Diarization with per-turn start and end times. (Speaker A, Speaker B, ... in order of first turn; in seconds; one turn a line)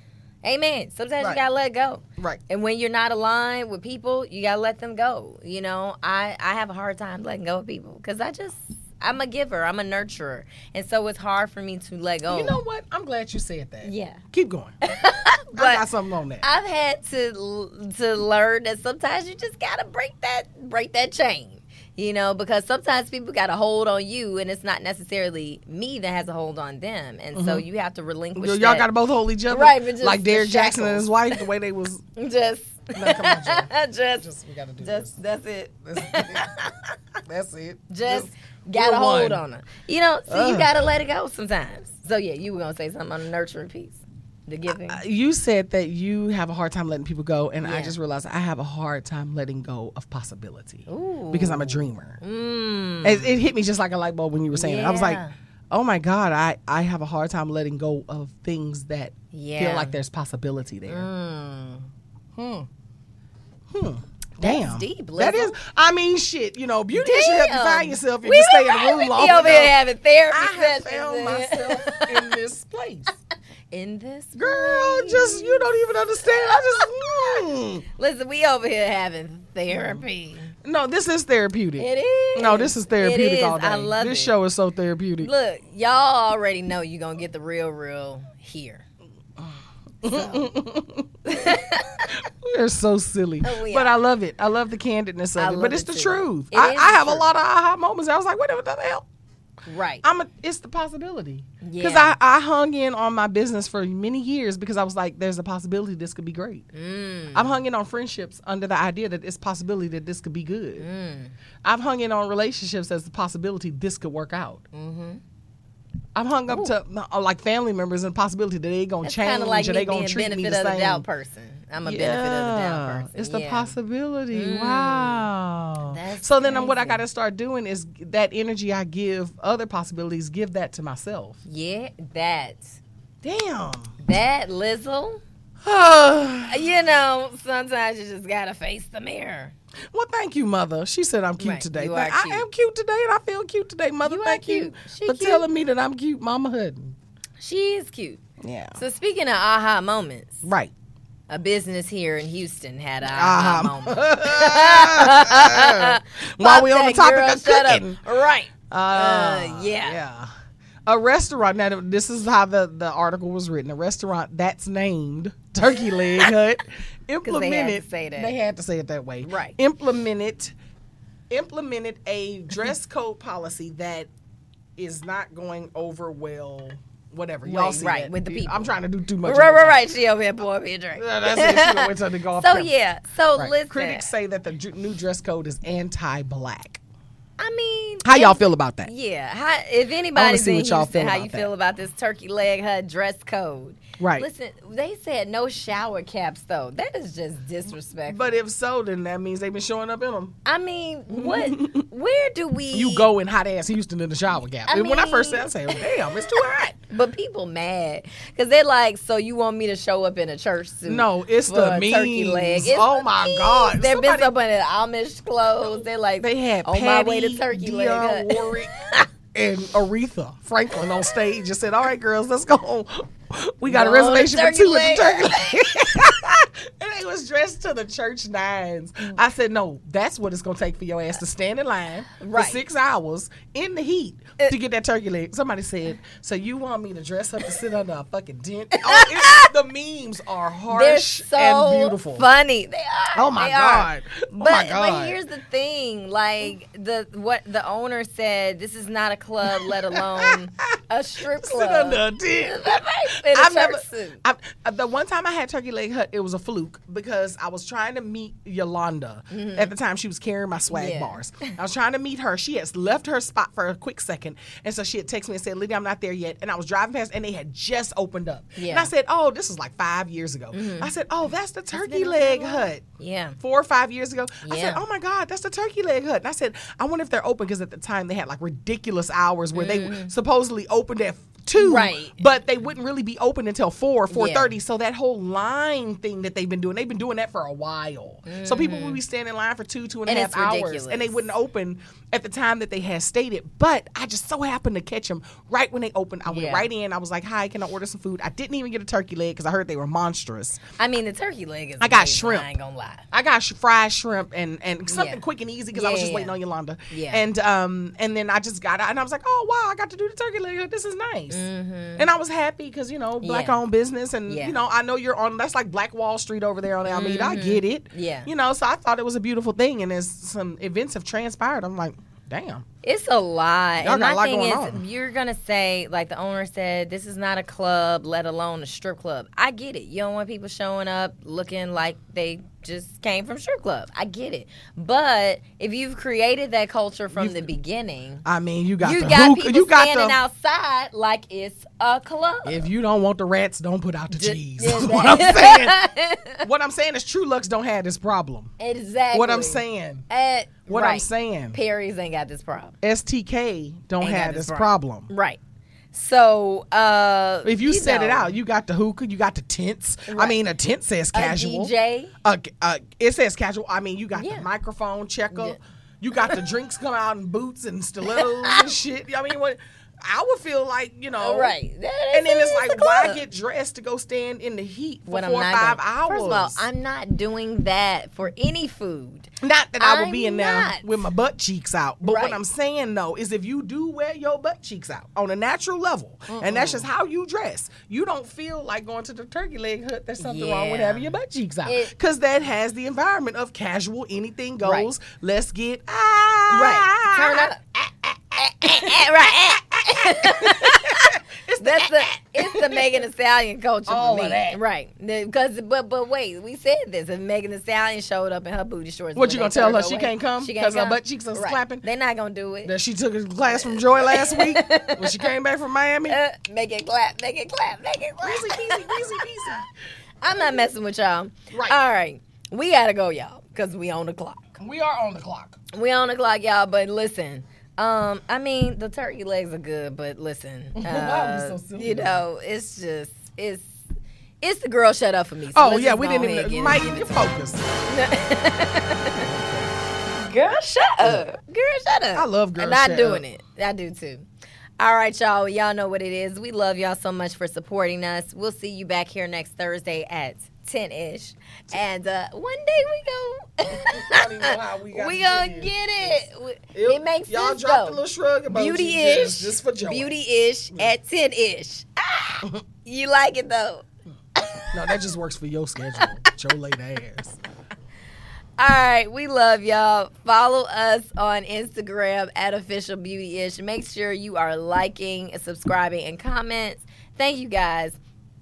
Speaker A: 0.4-12.6
Speaker B: 12.3-14.8
Speaker A: 13.8-14.2
Speaker A: 14.8-15.8
Speaker B: 15.5-16.4
Speaker A: 16.4-28.9
Speaker B: 27.3-27.6
Speaker B: 28.4-32.0
Speaker A: 29.5-31.4
Speaker A: 32.2-34.3
Speaker B: 32.9-35.1
Speaker A: 34.8-36.9
Speaker B: 35.9-36.5
Speaker B: 37.3-39.4
Speaker A: 37.9-45.0
Speaker B: 40.3-40.7
Speaker B: 44.7-52.2
Speaker A: 47.6-48.0
Speaker A: 50.9-53.4
Speaker B: 53.0-61.1
Speaker A: 54.5-55.3
Speaker A: 59.3-60.0
Speaker A: 60.9-61.9
Speaker B: 62.4-62.7
Speaker B: 63.7-73.1
Speaker A: 64.4-65.6
Speaker A: 66.9-72.4
Speaker A: 73.7-80.5
Speaker B: 74.3-77.8
Speaker B: 79.7-80.0
Speaker B: 80.6-85.3
Speaker A: 81.8-84.3
Speaker A: 85.2-88.9
Speaker B: 89.4-91.5
Speaker A: 90.1-90.5
Speaker A: 91.3-92.2
Speaker B: 92.1-99.0
Speaker A: 93.4-93.9
Speaker A: 95.4-97.3
Speaker A: 99.7-100.1
Speaker B: 100.0-106.7
Speaker A: 101.6-102.1
Speaker A: 106.7-107.6
Speaker B: 107.3-110.9
Speaker A: 110.8-111.3
Speaker B: 111.6-114.6
Speaker A: 114.7-115.2
Speaker B: 116.2-121.1
Speaker A: 116.5-116.7
Speaker A: 119.0-123.8
Speaker B: 121.8-131.4
Speaker A: 124.3-125.3
Speaker A: 125.8-127.0
Speaker A: 131.4-132.8
Speaker B: 133.2-133.9
Speaker A: 134.0-135.2
Speaker B: 135.6-136.7
Speaker A: 136.5-139.5
Speaker B: 139.9-147.0
Speaker A: 141.4-142.5
Speaker A: 144.0-145.5
Speaker A: 147.4-148.2
Speaker B: 148.4-148.8
Speaker A: 148.8-150.4
Speaker B: 150.4-150.7
Speaker A: 151.3-160.0
Speaker B: 153.0-158.0
Speaker B: 158.7-160.3
Speaker B: 160.9-170.5
Speaker A: 165.7-166.3
Speaker A: 167.2-168.4
Speaker A: 169.3-169.6
Speaker B: 171.3-174.1
Speaker B: 174.8-179.8
Speaker A: 177.4-184.1
Speaker B: 181.0-182.7
Speaker B: 183.4-186.8
Speaker A: 187.4-198.4
Speaker B: 188.0-188.9
Speaker B: 190.2-191.5
Speaker B: 194.0-194.3
Speaker B: 198.1-200.3
Speaker A: 200.4-203.1
Speaker B: 201.1-201.9
Speaker B: 202.7-206.8
Speaker A: 204.7-219.1
Speaker B: 210.9-214.3
Speaker B: 216.2-218.7
Speaker B: 219.3-242.3
Speaker A: 223.7-225.8
Speaker A: 232.2-232.7
Speaker A: 238.8-239.5
Speaker A: 240.7-254.2
Speaker B: 243.2-245.2
Speaker B: 249.4-272.8
Speaker A: 259.3-259.7
Speaker A: 260.7-261.5
Speaker A: 268.6-268.9
Speaker A: 270.5-270.9
Speaker A: 271.7-273.4
Speaker B: 273.4-300.6
Speaker A: 274.4-274.8
Speaker A: 279.5-280.1
Speaker A: 281.6-282.2
Speaker A: 284.1-284.6
Speaker A: 288.3-289.0
Speaker A: 290.1-291.2
Speaker A: 296.2-296.7
Speaker A: 300.8-303.1
Speaker B: 301.8-302.5
Speaker B: 303.1-311.4
Speaker A: 304.9-305.2
Speaker A: 305.7-306.4
Speaker A: 306.9-307.2
Speaker A: 311.3-312.1
Speaker B: 312.0-322.6
Speaker A: 313.2-313.6
Speaker A: 314.3-314.6
Speaker A: 316.9-318.3
Speaker A: 322.8-338.2
Speaker B: 323.8-324.8
Speaker B: 337.1-337.5
Speaker B: 338.2-340.2
Speaker A: 338.8-342.7
Speaker B: 342.4-345.8
Speaker A: 344.1-346.5
Speaker B: 346.4-348.5
Speaker A: 348.6-352.8
Speaker B: 349.1-350.1
Speaker B: 350.7-351.6
Speaker B: 352.8-355.1
Speaker A: 354.0-355.4
Speaker A: 355.9-358.4
Speaker B: 357.4-361.7
Speaker A: 360.1-360.4
Speaker A: 361.1-362.1
Speaker B: 362.2-371.6
Speaker A: 364.1-364.5
Speaker A: 365.3-365.6
Speaker A: 368.1-368.7
Speaker A: 371.2-373.2
Speaker B: 372.1-376.6
Speaker A: 375.1-380.9
Speaker B: 379.4-403.0
Speaker A: 382.0-382.4
Speaker A: 386.3-386.9
Speaker A: 390.2-391.1
Speaker A: 391.6-391.9
Speaker A: 394.6-394.9
Speaker A: 396.5-397.6
Speaker A: 398.4-412.7
Speaker B: 403.9-404.6
Speaker B: 409.1-411.9
Speaker B: 412.6-416.2
Speaker A: 413.5-415.3
Speaker A: 416.1-419.6
Speaker B: 418.2-419.7
Speaker A: 420.2-424.6
Speaker B: 421.5-421.8
Speaker B: 424.6-425.6
Speaker A: 425.7-433.8
Speaker B: 430.8-432.2
Speaker A: 434.4-437.3
Speaker B: 435.5-437.7
Speaker A: 437.9-439.3
Speaker B: 439.2-439.7
Speaker A: 440.2-444.2
Speaker B: 442.1-443.2
Speaker A: 444.8-465.0
Speaker B: 453.8-456.2
Speaker B: 456.7-460.1
Speaker B: 464.7-467.4
Speaker A: 468.6-478.0